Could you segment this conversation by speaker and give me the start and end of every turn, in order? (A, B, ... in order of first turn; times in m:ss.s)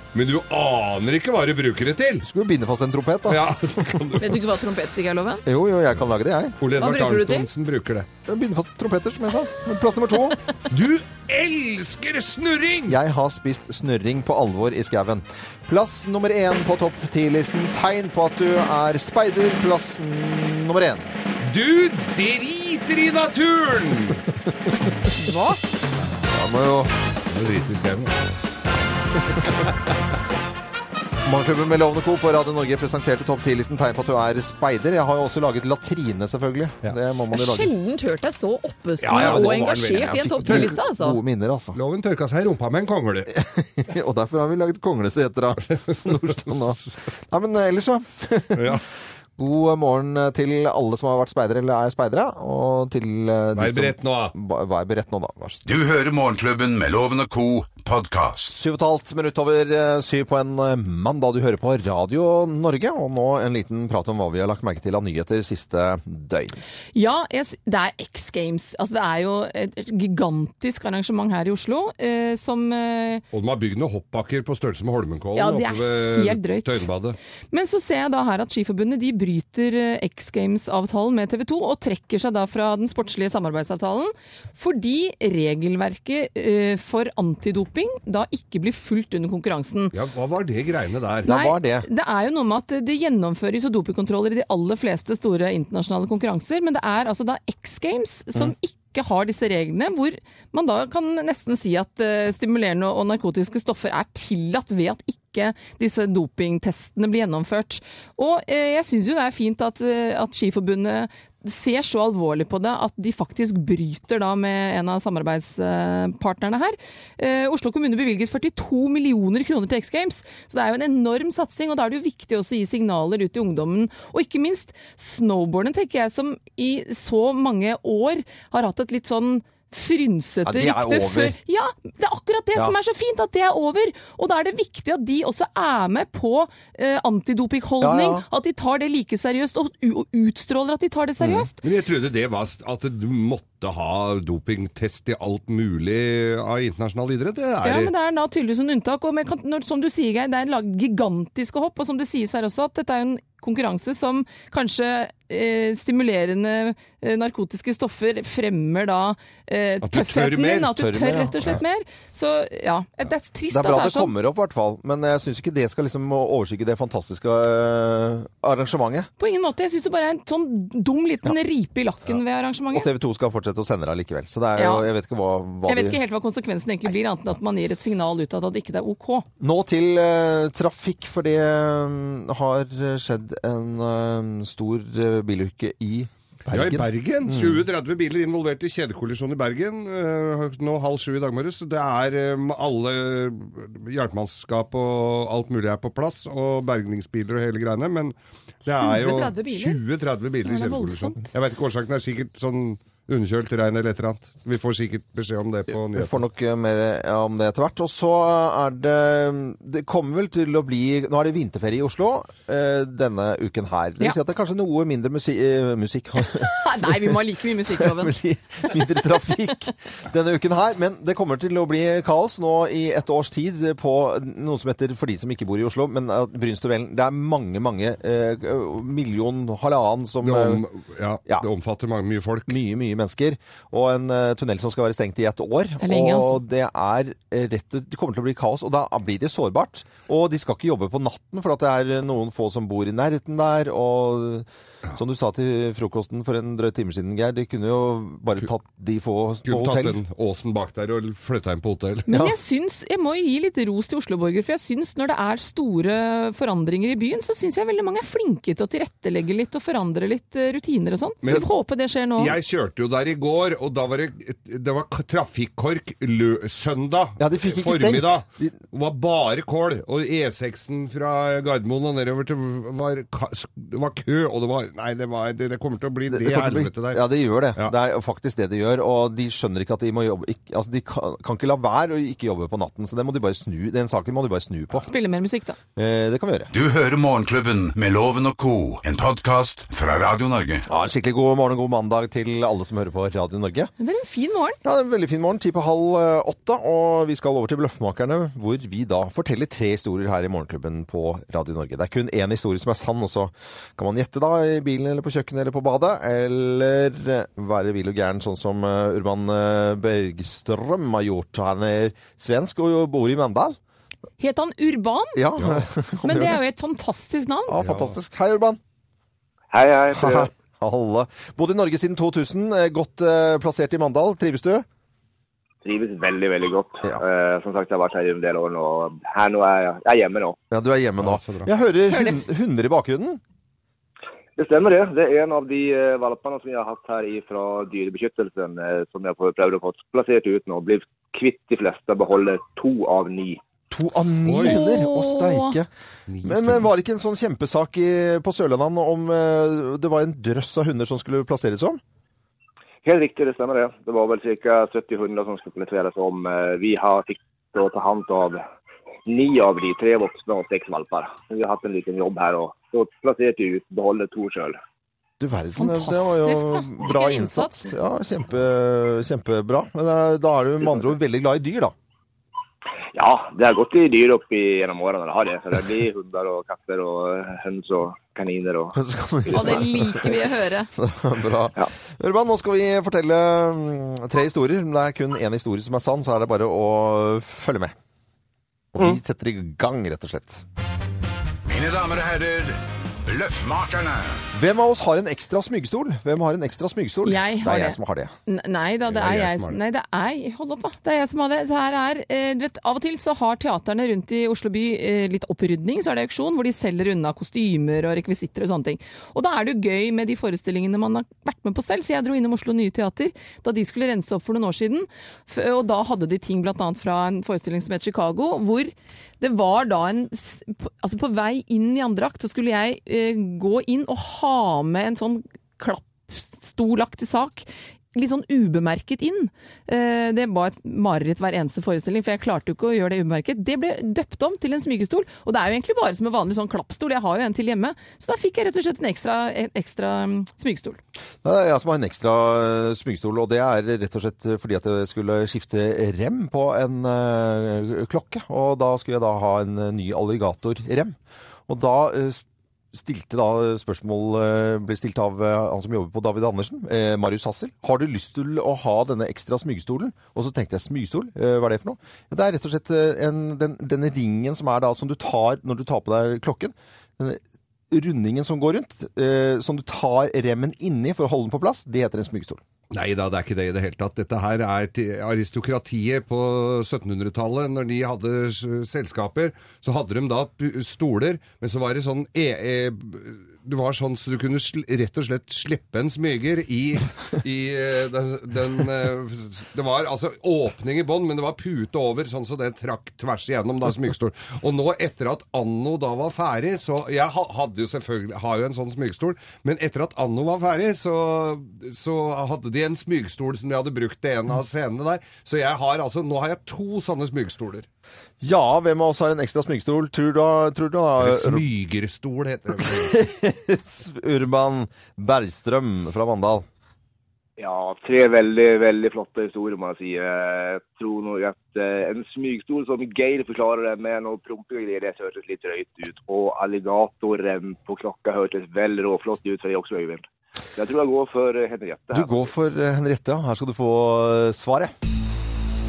0:00.1-0:02.2 A
0:02.2-0:04.0 B
0:03.3-0:04.4 A
0:04.2-0:05.4 C
0:05.4-0:06.6 B
0:06.6-0:08.1 A
0:06.8-0:07.5 C
0:08.2-0:10.4 B
0:10.7-0:13.0 A
0:12.9-0:21.1 B
0:21.4-0:24.2 A
0:25.1-0:25.6 C
0:26.3-0:26.9 B
0:27.3-0:28.3 A
0:29.4-0:29.7 A
0:31.2-0:37.7 B
0:37.3-0:41.2 C
0:39.0-0:40.7 A
0:39.1-0:41.8 B
0:41.7-0:43.3 A
0:43.3-0:48.8 B
0:46.1-0:46.6 A
0:48.5-0:48.8 A
0:49.4-0:55.6 B
0:53.5-0:54.3 A
0:55.6-0:58.6 D
0:58.5-1:06.6 B
1:06.9-1:13.2 C
1:13.3-1:17.2 A
1:15.4-1:16.8 C
1:17.5-1:29.9 C
1:29.9-1:31.3 A
1:31.2-1:31.9 B
1:31.2-2:21.6 C
2:10.4-2:11.4 B
2:17.8-2:18.2 B
2:21.2-2:21.5 B
2:21.6-2:27.9 A
2:27.6-2:44.1 C
2:39.8-2:40.7 A
2:40.8-2:41.6 B
2:43.5-2:49.1 B
2:49.2-2:52.9 C
2:52.7-2:56.0 B
2:54.6-2:54.9 C
2:55.6-2:59.2 C
2:59.4-3:07.6 B
3:06.5-3:26.2 A
3:18.7-3:19.8 C
3:20.4-3:21.3 C
3:25.9-3:50.6 B
3:36.2-3:38.1 C
3:50.2-3:52.6 A
3:52.5-4:10.0 B
3:55.8-3:56.4 C
4:09.4-4:12.3 A
4:12.1-4:22.4 C
4:22.2-4:37.7 A
4:27.2-4:28.6 B
4:36.1-4:44.9 B
4:44.7-4:45.6 C
4:45.8-4:46.5 B
4:46.5-4:50.6 D
4:50.7-4:53.7 B
4:53.8-4:54.6 C
4:54.6-5:13.6 B
5:14.2-5:15.2 C
5:15.1-5:16.4 B
5:15.4-5:15.6 A
5:16.0-5:17.6 C
5:17.5-5:18.6 B
5:17.6-5:17.9 A
5:19.5-5:20.3 E
5:19.9-5:24.6 B
5:25.6-5:30.4 E
5:30.5-5:33.2 B
5:31.0-5:31.5 A
5:31.9-5:32.2 C
5:34.4-5:43.4 E
5:43.7-5:45.7 B
5:44.2-5:44.6 A
5:44.4-5:45.6 C
5:46.1-5:46.7 A
5:46.2-5:51.8 B
5:52.8-5:58.4 E
5:59.0-6:04.6 E
6:05.2-6:11.7 B
6:05.6-6:07.7 C
6:12.9-6:18.8 E
6:18.7-6:20.1 B
6:19.3-6:20.7 C
6:20.8-6:27.7 B
6:28.7-6:30.4 B
6:31.4-6:34.2 D
6:34.3-6:38.1 B
6:37.0-7:20.8 C
6:38.9-6:39.6 A
7:21.2-7:30.9 B
7:31.5-7:52.4 B
7:52.7-8:27.6 A
8:28.2-8:31.4 B
8:31.0-8:33.0 A
8:32.6-8:36.4 B
8:37.4-8:52.3 E
8:51.9-8:54.7 B